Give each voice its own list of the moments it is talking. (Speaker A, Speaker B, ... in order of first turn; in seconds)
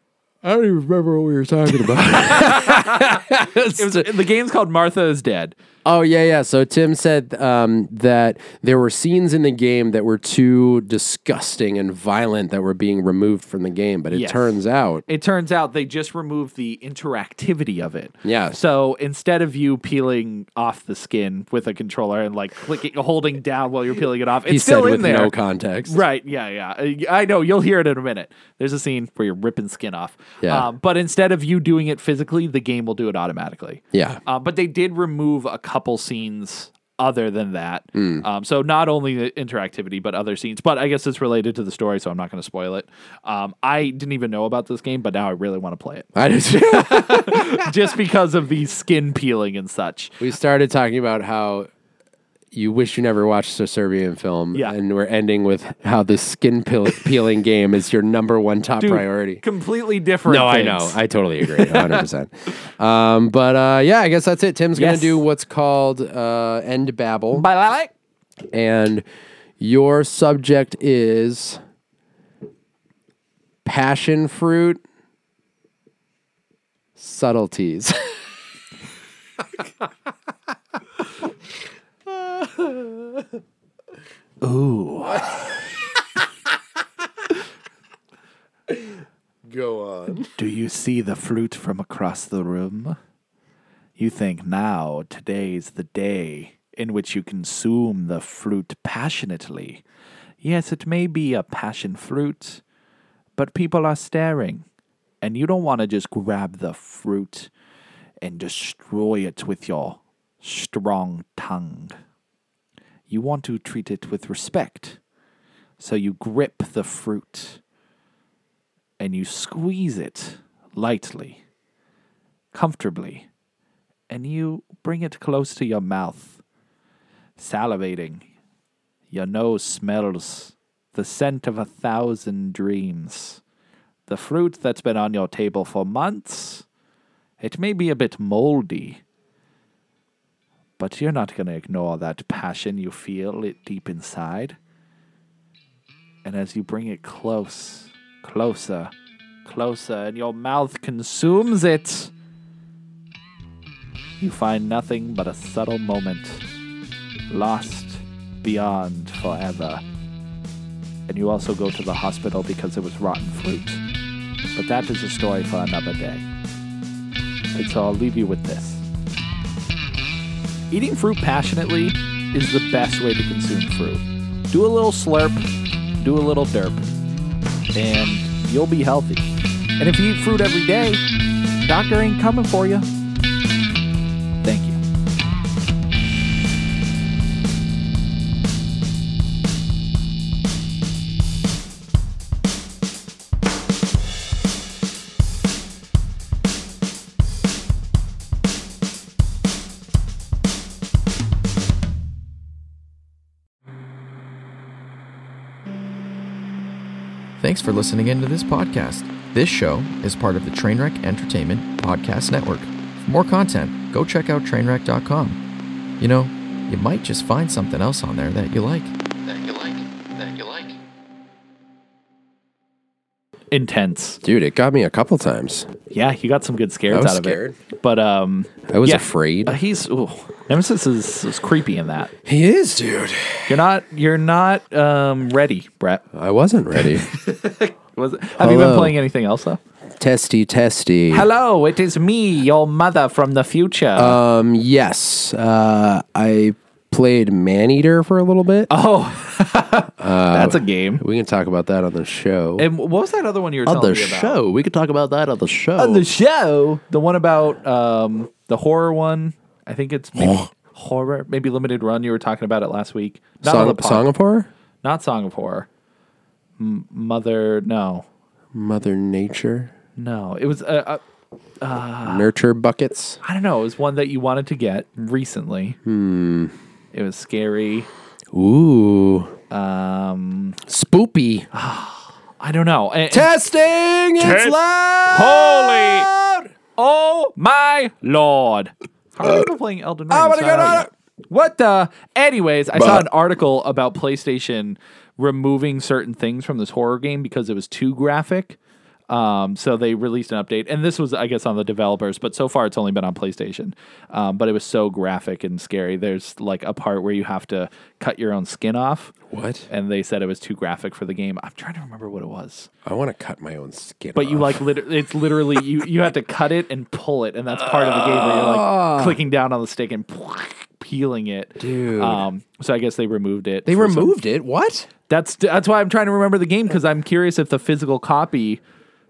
Speaker A: 0.4-4.1, 5.8-15.0, 18.2-18.6, 24.5-26.0, 30.4-30.7, 33.9-34.2, 37.9-38.2, 46.1-47.6, 50.2-51.7, 52.5-59.4, 60.3-67.5, 68.5-69.0, 69.6-71.6, 73.6-74.8, 77.0-78.2, 82.1-83.2, 89.5-90.3, 219.3-220.6, 224.2-225.7, 226.9-227.6, 228.7-229.6, 232.2-233.5, 236.1-237.1, 238.4-238.9, 240.0-241.3, 243.9-248.7, 250.0-252.7, 253.6-256.1, 260.2-260.5, 263.4-264.5, 268.5-269.7, 272.1-273.2, 275.9-276.5, 278.3-279.4, 280.7-281.5, 283.1-286.5, 290.1-290.9, 309.3-309.7, 312.9-314.7, 317.6-319.2, 321.6-322.3, 323.6-324.9
Speaker B: 1.7-3.2, 3.8-5.5, 14.1-50.2, 58.8-62.0, 64.8-65.2, 67.3-67.9, 84.4-85.6, 90.3-93.0, 94.0-99.8, 100.4-102.6, 103.3-104.6, 105.2-107.5, 108.2-111.9, 113.1-115.0, 115.8-117.6, 119.0-121.4, 122.5-123.3, 124.1-126.4, 127.4-128.3, 129.1-133.4, 134.1-136.7, 137.4-139.0, 140.8-144.6, 146.2-148.9, 149.4-152.1, 154.2-156.4, 157.3-159.8, 161.1-163.8, 164.6-166.2, 167.5-168.8, 170.7-175.5, 176.0-176.9, 177.7-181.0, 181.6-182.9, 184.4-184.8, 223.5-224.2, 225.9-232.1, 233.5-236.0, 236.7-239.6, 241.1-244.2, 248.7-251.0, 252.6-254.4, 255.8-264.1, 264.8-265.7, 266.6-268.1, 269.9-271.0, 271.6-272.3, 273.2-275.8, 276.9-277.9, 279.5-280.6, 281.5-283.3, 284.2-284.6, 285.1-286.1, 286.8-298.6, 299.1-309.1, 309.7-312.7, 314.1-324.1, 325.1-328.6
Speaker C: 207.4-215.4, 216.0-218.9, 220.2-220.7